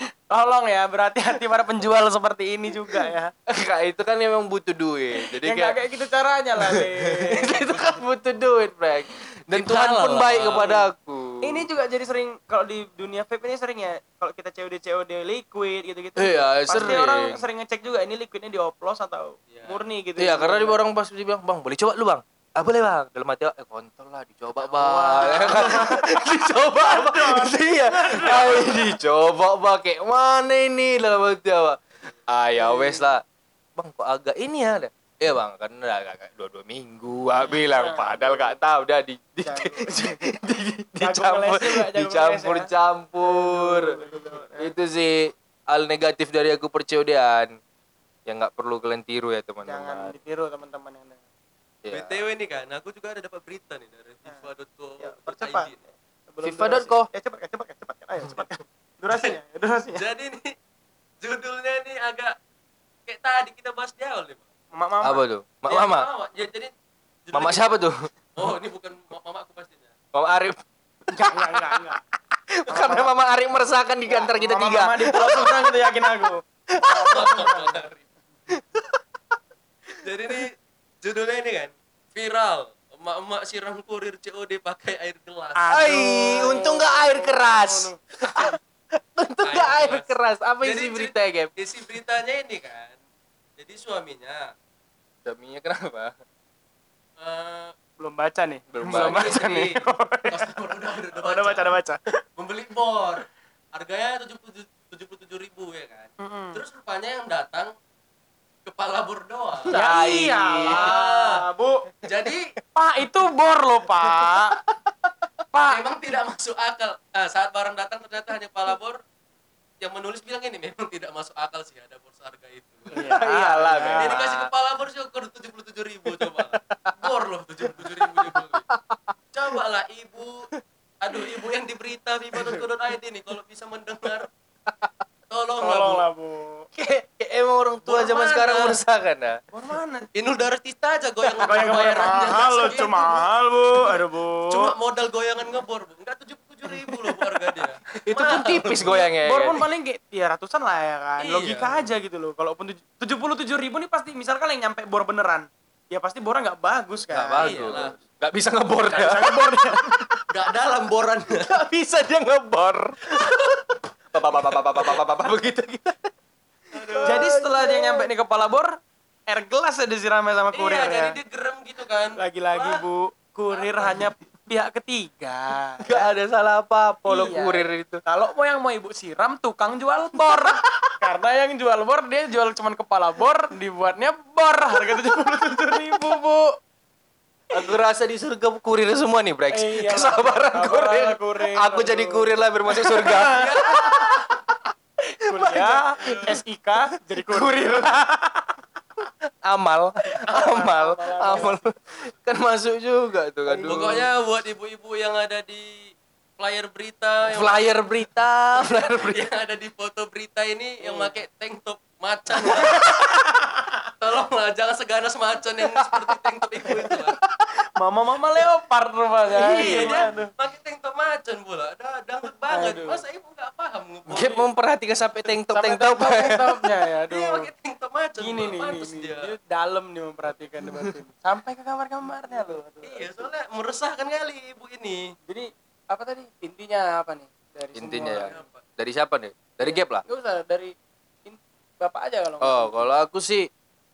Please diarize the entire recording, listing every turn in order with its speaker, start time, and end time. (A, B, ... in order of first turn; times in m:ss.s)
0:00.3-0:03.3 A
0:02.9-0:05.8 B
0:05.4-0:07.7 A
0:06.7-0:11.7 B
0:09.5-0:10.7 C
0:10.5-0:10.9 A
0:11.4-0:20.8 A
0:16.2-0:17.4 B
0:19.5-0:19.8 C
0:20.2-0:33.2 B
0:24.6-0:29.0 A
0:32.6-0:33.1 A
0:33.8-0:44.0 B
0:37.4-0:38.6 A
0:39.4-0:40.1 A
0:41.0-0:42.7 A
0:43.2-0:44.7 A
0:44.6-0:47.5 B
0:48.3-0:50.2 B
0:49.7-0:51.2 A
0:51.8-0:52.2 B
0:51.9-0:55.8 C
0:55.0-0:55.7 A
0:56.3-1:00.0 A
0:56.4-0:57.1 B
1:00.0-1:00.5 C
1:01.2-1:02.3 C
1:03.1-1:04.4 C
1:04.7-1:05.2 A
1:05.0-1:06.1 B
1:05.7-1:06.7 C
1:07.3-1:07.8 C
1:07.3-1:08.1 B
1:08.4-1:09.9 C
1:10.1-1:11.9 B
1:11.1-1:12.0 A
1:12.5-1:17.6 B
1:12.7-1:13.1 A
1:14.1-1:17.8 A
1:17.0-1:18.0 C
1:18.5-1:19.0 B
1:20.0-1:25.8 C
1:25.6-1:28.6 A
1:25.7-1:31.5 B
1:29.4-1:33.0 C
1:33.6-1:34.5 C
1:35.2-1:36.1 B
1:37.2-1:37.7 C
1:38.0-1:42.2 A
1:38.7-1:39.4 B
1:38.9-1:39.8 C
1:40.3-1:41.8 C
1:42.4-1:47.8 C
1:46.2-1:46.6 A
1:48.6-1:49.8 C
1:49.7-1:50.9 B
1:49.7-1:51.9 A
1:50.6-1:51.4 C
1:52.0-1:52.5 C
1:52.8-1:54.6 A
1:54.0-1:55.1 B
1:55.5-1:55.8 A
1:55.7-1:59.0 C
1:59.8-2:03.0 C
2:02.9-2:04.2 A
2:03.1-2:04.5 B
2:04.0-2:08.7 C
2:06.5-2:07.1 B
2:07.7-2:09.6 B
2:09.3-2:10.5 C
2:11.0-2:14.3 C
2:11.1-2:11.4 B
2:14.7-2:15.0 B
2:15.3-2:16.1 C
2:15.6-2:16.7 A
2:16.8-2:19.4 B
2:17.8-2:18.8 C
2:19.5-2:20.1 A
2:20.1-2:23.9 C
2:21.3-2:24.7 A
2:24.5-2:29.1 C
2:28.0-2:29.6 B
2:29.2-2:37.8 A
2:31.2-2:31.7 C
2:37.1-2:40.2 B
2:37.4-2:38.0 C
2:38.9-2:40.0 A
2:40.3-2:41.6 C
2:41.5-2:46.1 B
2:46.7-2:47.4 C
2:46.8-2:48.1 B
2:47.0-2:48.8 A
2:49.3-2:51.2 A
2:50.5-2:52.8 C
2:52.2-2:56.1 A
2:53.5-2:54.0 C
2:55.8-2:58.0 B
2:57.0-3:06.5 A
3:00.2-3:00.9 B
3:07.5-3:14.7 B
3:09.5-3:14.0 A
3:13.2-3:13.8 C
3:15.2-3:18.5 A
3:15.3-3:16.3 B
3:16.0-3:16.3 C
3:17.1-3:17.9 B
3:19.4-3:24.1 B
3:20.3-3:21.6 A
3:23.6-3:27.8 C
3:27.3-3:29.3 B
3:28.6-3:32.8 C
3:30.8-3:31.2 A
3:32.4-3:33.9 A
3:34.0-3:37.2 C
3:37.8-3:40.3 A
3:39.4-3:40.2 B
3:39.4-3:44.5 C
3:42.5-3:43.0 A
3:44.1-3:46.6 B
3:45.5-3:47.5 A
3:47.1-3:49.3 C
3:48.2-3:53.3 A
3:52.8-3:55.2 C
3:55.3-3:58.4 A
3:57.8-4:00.0 B
3:58.1-3:58.6 C
3:59.6-4:02.9 A
4:02.4-4:03.5 B